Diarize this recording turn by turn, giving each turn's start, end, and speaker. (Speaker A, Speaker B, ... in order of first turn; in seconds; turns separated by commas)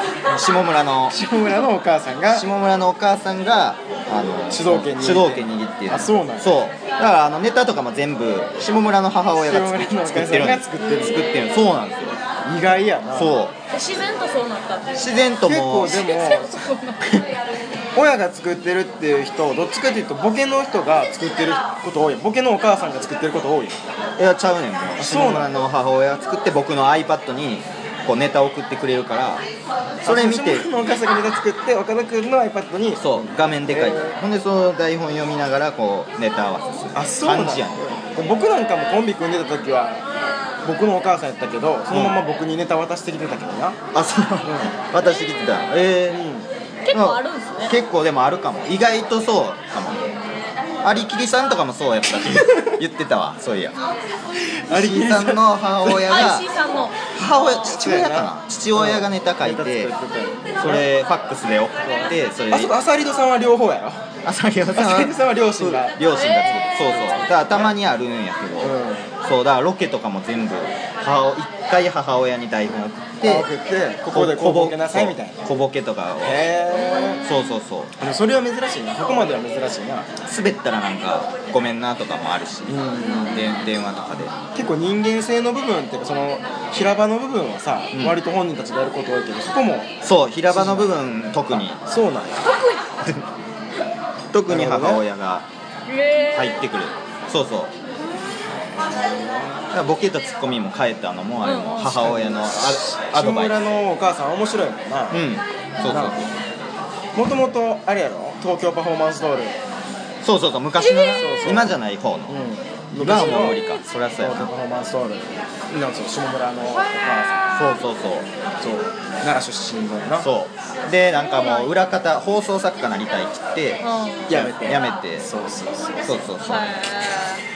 Speaker A: 0.2-1.2, Speaker B: 1.1-2.5, Speaker A: 2.3-12.2, Speaker B: 4.5-6.5, Speaker B: 9.4-11.2, Speaker C: 10.8-11.6, Speaker B: 12.4-13.4, Speaker A: 13.1-13.5, Speaker C: 13.7-15.2, Speaker A: 14.9-16.0, Speaker B: 15.4-16.6, Speaker C: 15.8-17.0, Speaker B: 17.9-23.8, Speaker A: 24.2-29.4, Speaker B: 25.0-25.5, Speaker A: 30.0-30.7, Speaker B: 30.0-34.2, Speaker A: 33.0-37.8, Speaker B: 36.9-40.0, Speaker B: 40.6-43.8, Speaker A: 41.9-42.2, Speaker A: 43.9-46.2, Speaker B: 44.4-44.7, Speaker C: 45.0-45.7, Speaker B: 46.1-46.5, Speaker C: 46.9-47.8, Speaker A: 46.9-50.0, Speaker A: 50.8-53.8, Speaker B: 54.5-56.3, Speaker A: 54.7-56.5, Speaker C: 56.0-57.7, Speaker A: 57.1-59.9, Speaker B: 57.6-60.9, Speaker A: 60.6-62.7, Speaker B: 61.8-64.0, Speaker A: 64.2-73.5, Speaker B: 64.7-66.0, Speaker C: 66.1-67.2, Speaker B: 66.8-67.7, Speaker B: 68.6-69.1, Speaker B: 73.2-75.5, Speaker A: 74.1-76.5, Speaker B: 76.2-77.2, Speaker C: 76.7-77.3, Speaker A: 77.2-77.9, Speaker B: 78.0-80.1, Speaker A: 80.2-84.3, Speaker B: 82.7-83.5, Speaker B: 84.5-89.9, Speaker A: 87.9-88.2, Speaker A: 90.0-91.8, Speaker B: 90.5-90.9, Speaker B: 91.5-92.5, Speaker C: 92.4-92.8, Speaker A: 93.0-93.3, Speaker A: 94.3-95.5, Speaker B: 94.5-95.0, Speaker C: 95.9-96.6, Speaker A: 96.3-97.7, Speaker B: 98.8-99.6, Speaker A: 99.7-103.7, Speaker C: 101.4-102.0, Speaker B: 101.9-105.2, Speaker A: 105.1-106.3, Speaker B: 105.9-106.2, Speaker B: 107.1-109.5, Speaker A: 110.2-112.4, Speaker C: 110.8-111.6, Speaker B: 111.1-111.8, Speaker B: 112.3-113.6, Speaker A: 113.0-114.5, Speaker B: 114.2-117.6, Speaker A: 117.5-118.3, Speaker B: 118.6-120.3, Speaker A: 120.2-125.3, Speaker C: 121.2-121.7, Speaker C: 123.8-124.4, Speaker B: 124.3-126.2, Speaker A: 126.0-126.9, Speaker C: 126.4-127.4